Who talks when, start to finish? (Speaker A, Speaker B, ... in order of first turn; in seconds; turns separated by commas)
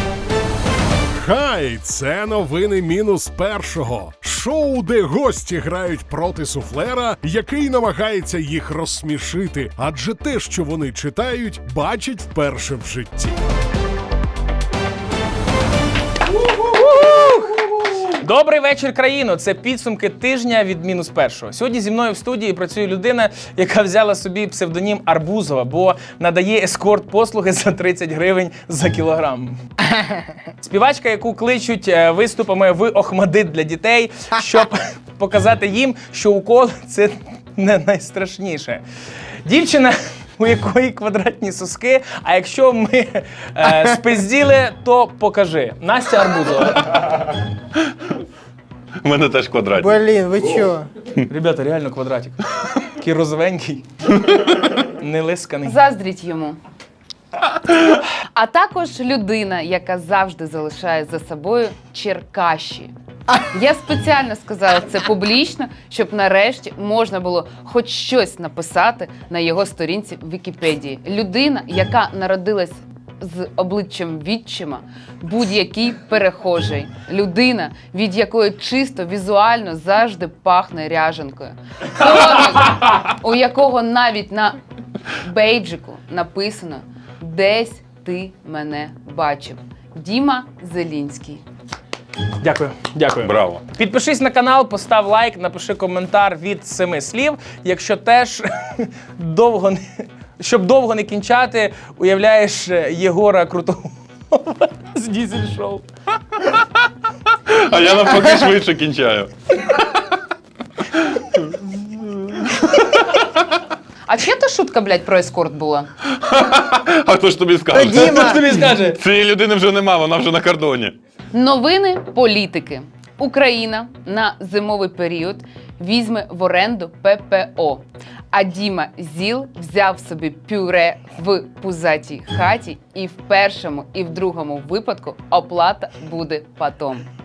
Speaker A: 1.1-13.4, Speaker B: 16.5-29.6, Speaker B: 30.6-38.8, Speaker B: 39.4-47.0, Speaker C: 49.0-49.9, Speaker D: 49.8-50.9, Speaker B: 51.3-53.9, Speaker B: 54.5-55.8, Speaker E: 55.6-56.6, Speaker E: 58.3-62.9, Speaker E: 63.5-84.6, Speaker E: 85.2-91.4, Speaker B: 92.4-105.8, Speaker C: 93.2-93.6, Speaker C: 107.5-109.8, Speaker C: 110.9-113.2, Speaker E: 114.1-115.9, Speaker C: 116.1-121.0, Speaker D: 117.7-118.5, Speaker B: 117.9-119.0, Speaker E: 121.3-137.1